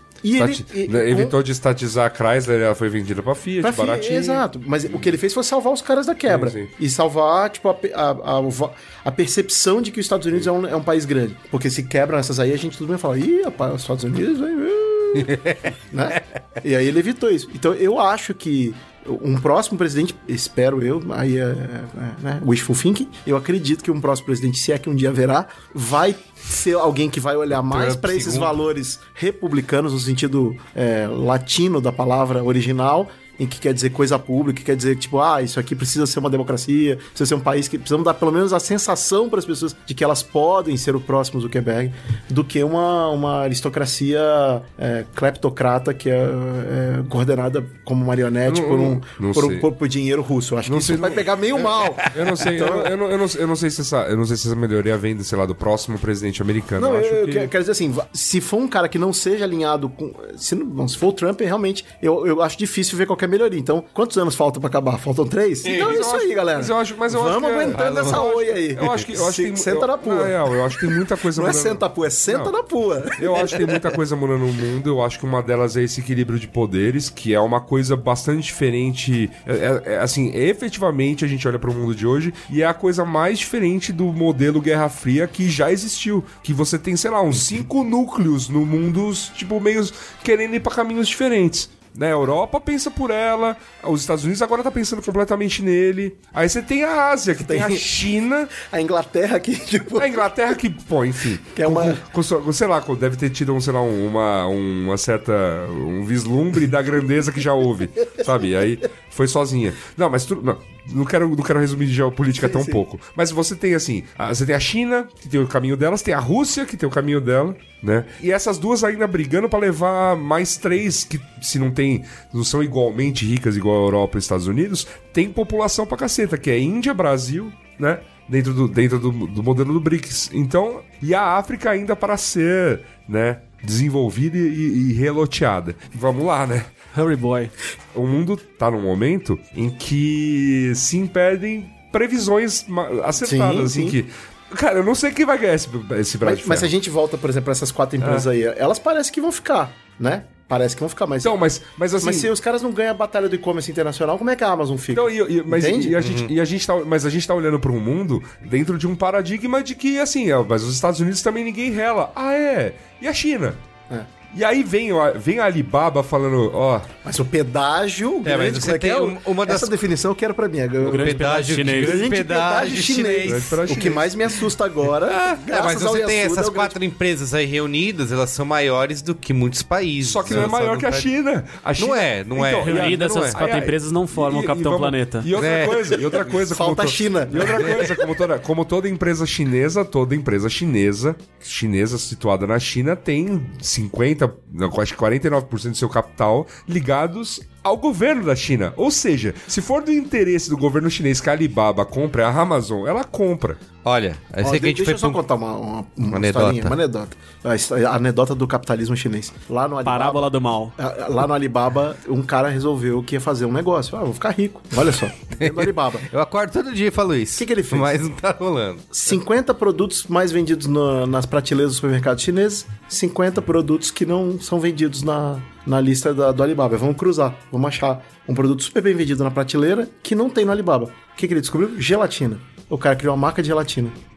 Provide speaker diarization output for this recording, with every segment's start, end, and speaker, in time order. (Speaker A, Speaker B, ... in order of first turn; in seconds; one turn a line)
Speaker A: 0.2-1.4
Speaker B: 0.4-5.1
Speaker A: 3.6-52.9
Speaker B: 6.3-6.7
Speaker C: 15.3-16.2
Speaker C: 27.5-28.6
Speaker B: 48.5-49.7
Speaker B: 50.7-57.5
Speaker A: 56.8-74.0
Speaker C: 65.7-66.0
Speaker B: 65.7-72.5
Speaker C: 67.7-68.3
Speaker B: 73.2-98.5
Speaker A: 97.4-97.9
Speaker A: 98.6-100.3
Speaker B: 100.0-136.7
Speaker A: 101.5-102.0
Speaker A: 112.4-112.8
Speaker D: 136.9-137.5
Speaker B: 137.9-146.7
Speaker A: 143.2-144.0
Speaker A: 146.2-151.3
Speaker B: 148.0-148.3
Speaker B: 151.2-152.3
Speaker A: 152.0-155.9
Speaker B: 154.9-163.6
Speaker C: 156.0-156.3
Speaker B: 164.3-166.9
Speaker A: 167.1-176.8
Speaker C: 168.2-169.8
Speaker C: 170.8-173.6
Speaker D: 170.8-172.1
Speaker B: 173.2-174.1
Speaker C: 175.0-181.1
Speaker B: 180.0-203.6
Speaker C: 181.8-183.5
Speaker D: 182.6-185.3
Speaker C: 185.3-186.2
Speaker A: 185.6-187.9
Speaker C: 187.3-188.0
Speaker C: 203.8-205.2
Speaker A: 204.4-216.1
Speaker C: 206.1-206.8
Speaker D: 209.8-210.8
Speaker C: 215.3-218.9
Speaker A: 217.4-218.0
Speaker A: 218.9-233.9